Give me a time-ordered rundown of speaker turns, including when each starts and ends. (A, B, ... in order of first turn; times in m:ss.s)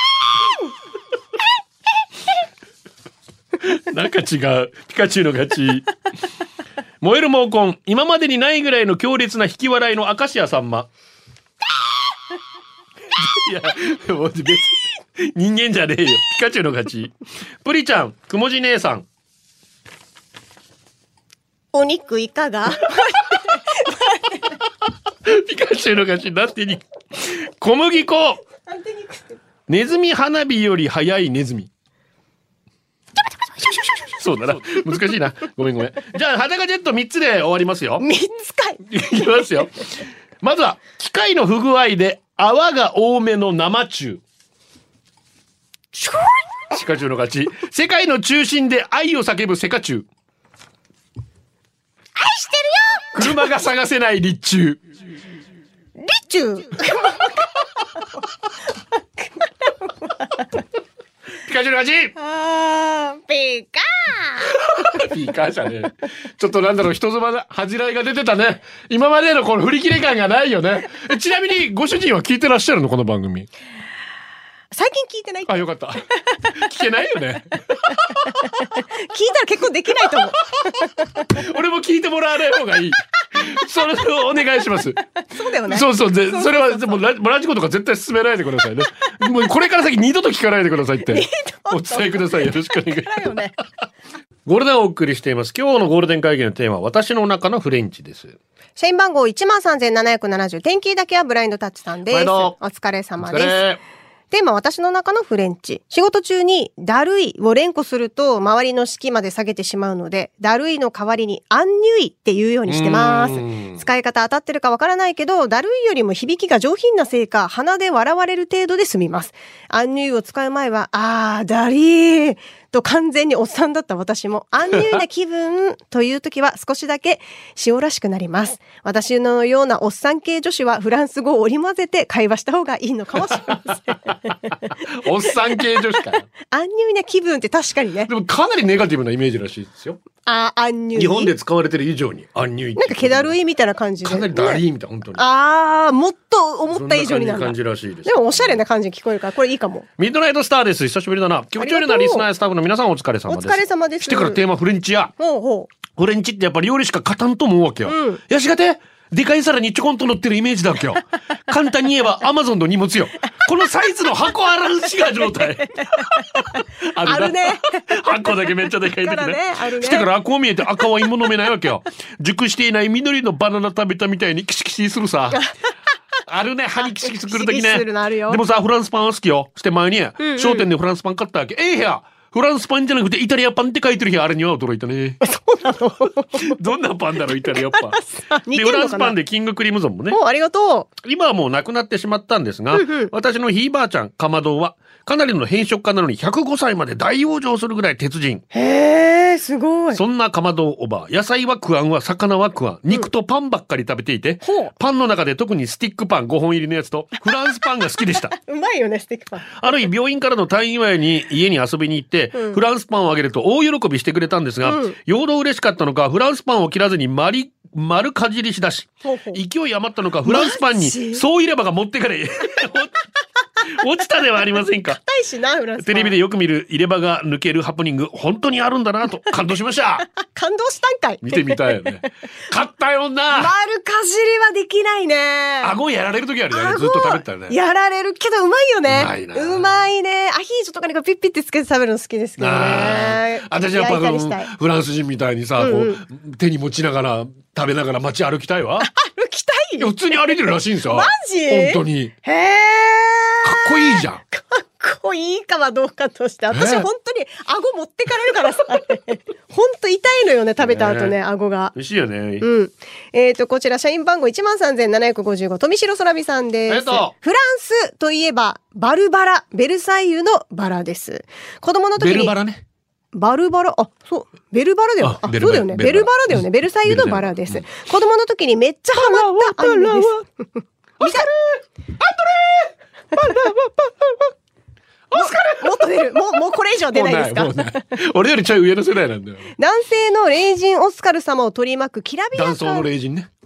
0:03.6-0:05.9 A
0:07.0-0:10.9 A
0:13.2-0:19.1 A
0:21.7-0:24.5 B
0:25.2-0:28.4 A
0:28.6-0:29.4 B
0:29.7-0:31.7 A
0:33.6-0:38.0 A
0:38.0-0:38.9 B
0:38.9-0:44.2 A
0:46.0-0:46.3 B
0:46.7-0:50.1 A
0:52.2-0:53.3 B
0:53.2-0:54.8 A
0:56.0-0:57.3 B
0:59.4-1:00.5 B
1:01.4-1:02.1 A
1:02.2-1:04.6 B
1:04.4-1:13.5 A
1:14.7-1:15.5 B
1:15.5-1:18.6 A
1:18.3-1:20.9 B
1:20.6-1:25.1 A
1:25.3-1:27.0 B
1:25.7-1:33.4 A
1:31.1-1:33.6 B
1:34.5-1:38.4 A
1:38.8-1:43.6 B
1:42.1-1:42.6 A
1:43.2-1:43.8 A
1:44.3-2:14.6 B
1:52.7-1:53.8 A
2:13.3-2:16.3 A
2:16.5-2:18.1 B
2:18.1-2:20.0 A
2:20.2-2:21.3 B
2:21.0-2:23.4 A
2:22.8-2:24.6 B
2:24.0-2:25.2 A
2:25.2-2:29.9 B
2:26.7-2:28.6 A
2:30.0-2:35.1 A
2:31.6-2:32.3 B
2:33.3-2:34.4 B
2:35.2-2:35.7 B
2:35.9-2:55.5 A
2:37.9-2:38.2 B
2:46.0-2:50.1 B
2:56.3-3:05.2 A
2:57.0-2:58.4 B
3:00.2-3:00.7 B
3:05.2-3:06.5 B
3:06.3-3:10.2 A
3:07.7-3:09.2 B
3:10.1-3:10.9 B
3:11.0-3:18.4 A
3:12.7-3:13.1 B
3:18.5-3:20.0 B
3:19.9-3:28.3 A
3:24.4-3:24.7 B
3:28.3-3:29.8 B
3:29.6-3:43.0 A
3:34.6-3:35.0 B
3:39.0-3:39.4 B
3:40.2-3:41.2 B
3:43.6-3:45.0 A
3:45.0-3:46.2 B
3:45.8-3:50.1 A
3:50.4-3:52.0 B
3:51.2-3:53.5 A
3:53.3-3:55.8 B
3:55.6-3:57.6 A
3:56.5-4:04.5 B
3:58.9-3:59.8 A
4:02.4-4:08.9 A
4:05.6-4:06.0 B
4:08.8-4:09.9 B
4:09.8-4:12.1 A
4:10.9-4:21.8 B
4:13.4-4:14.2 A
4:16.5-4:16.9 A
4:20.6-4:21.2 A
4:21.7-4:22.5 A
4:22.4-4:32.4 B
4:26.7-4:27.1 A
4:32.0-4:32.6 A
4:33.1-4:40.2 B
4:35.0-4:37.7 A
4:38.9-4:40.2 A
4:41.0-4:44.3 A
4:41.0-4:41.3 B
4:45.1-4:46.2 A
4:45.2-4:47.8 B
4:46.9-4:49.5 A
4:49.6-4:52.9 B
4:52.3-4:53.3 A